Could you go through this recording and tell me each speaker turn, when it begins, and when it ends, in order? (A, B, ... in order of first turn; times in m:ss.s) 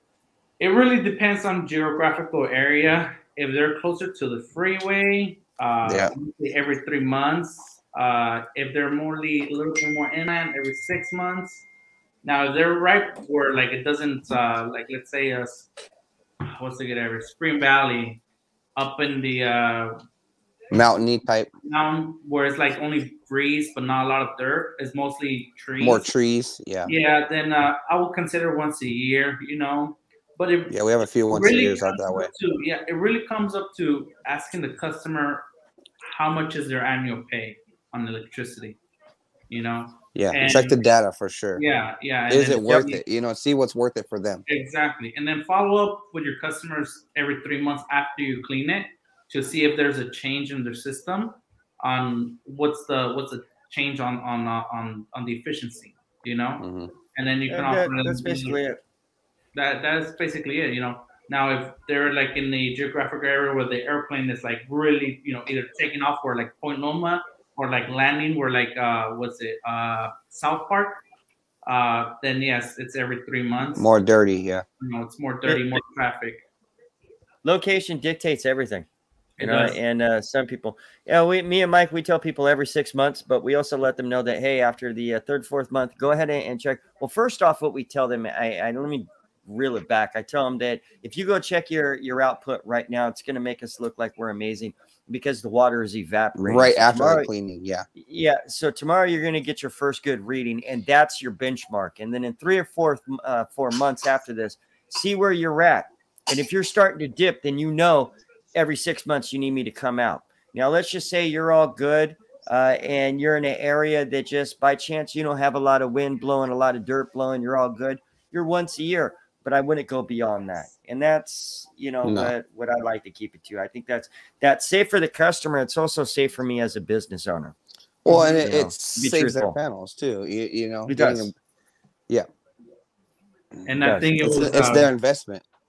0:00.6-0:11.7 A
0:05.9-0:06.1 B
0:12.2-0:15.7 A
0:16.5-0:18.2 A
0:18.8-0:20.0 A
0:20.7-0:21.5 B
0:21.7-0:26.0 A
0:25.8-0:26.9 B
0:26.9-0:30.8 A
0:30.7-0:32.3 B
0:31.3-0:35.4 A
0:36.0-0:38.8 A
0:39.5-0:40.8 A
0:40.1-0:41.6 B
0:41.6-0:43.0 A
0:42.3-0:44.4 B
0:44.5-0:58.6 A
0:56.6-0:56.9 B
0:57.5-0:58.8 C
0:59.6-1:11.0 A
1:11.7-1:13.9 A
1:13.8-1:14.6 B
1:14.8-1:16.4 A
1:15.4-1:15.8 C
1:17.4-1:18.9 C
1:19.4-1:19.8 A
1:19.4-1:37.3 C
1:36.3-1:37.8 B
1:38.0-2:07.6 C
2:02.0-2:02.3 B
2:08.0-2:11.3 B
2:08.1-2:09.6 C
2:08.1-2:08.4 A
2:10.9-2:11.3 C
2:13.6-2:14.9 A
2:13.8-2:14.3 C
2:14.2-2:15.4 B